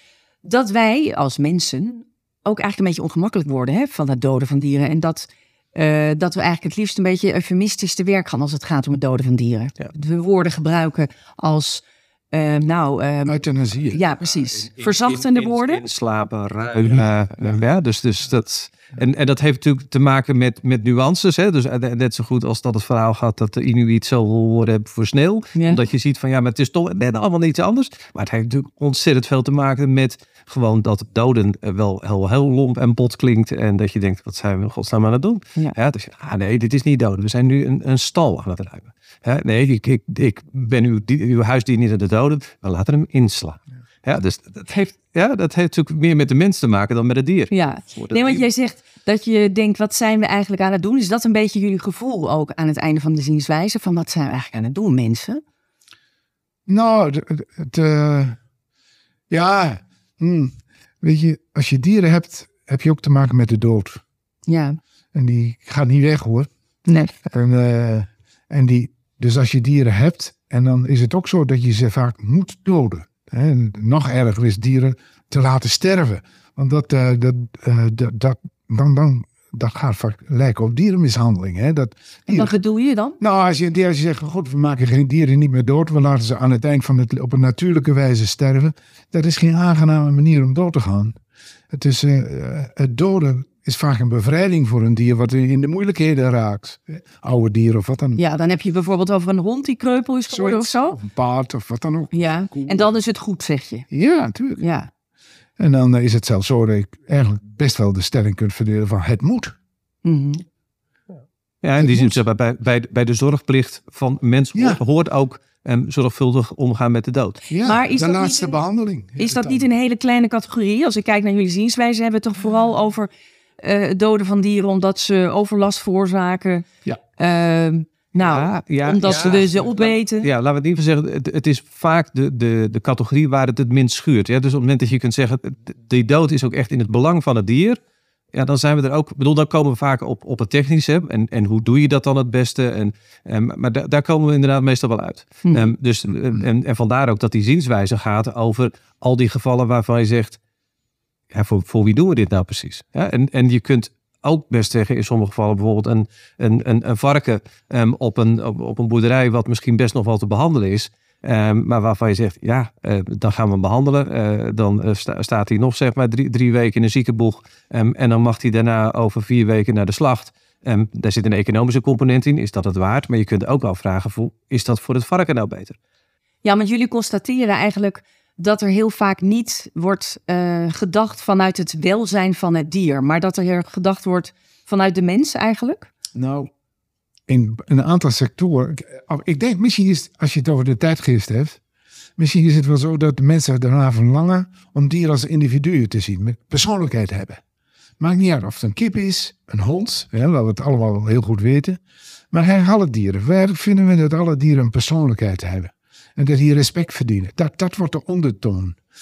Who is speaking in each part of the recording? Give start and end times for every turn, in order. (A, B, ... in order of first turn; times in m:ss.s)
0:00.4-0:13.4 A
0:13.2-0:14.0 B
0:13.9-0:15.8 A
0:14.4-0:48.4 C
0:25.5-0:25.8 A
0:47.5-0:55.4 A
0:56.7-0:58.4 B
0:59.3-1:04.0 B
1:04.5-1:04.8 A
1:05.1-1:06.5 B
1:06.8-1:07.1 A
1:07.2-1:22.5 B
1:22.3-1:23.2 A
1:23.2-1:31.2 B
1:31.7-1:38.2 B
1:38.2-1:41.0 A
1:40.3-1:42.8 B
1:42.1-1:43.8 A
1:43.9-1:44.6 B
1:44.6-1:44.9 A
1:45.6-1:49.5 B
1:50.0-1:50.4 A
1:51.6-1:57.4 C
1:51.8-1:52.2 B
1:54.5-1:54.8 B
1:57.5-1:59.6 B
1:57.6-1:58.5 A
1:59.2-2:06.6 A
2:07.2-2:10.3 A
2:08.2-2:17.8 C
2:18.3-2:30.4 C
2:31.3-2:55.8 C
2:56.4-3:05.9 A
3:06.2-3:06.5 B
3:07.3-3:11.6 B
3:12.2-3:17.4 B
3:18.0-3:21.8 B
3:22.3-3:28.8 B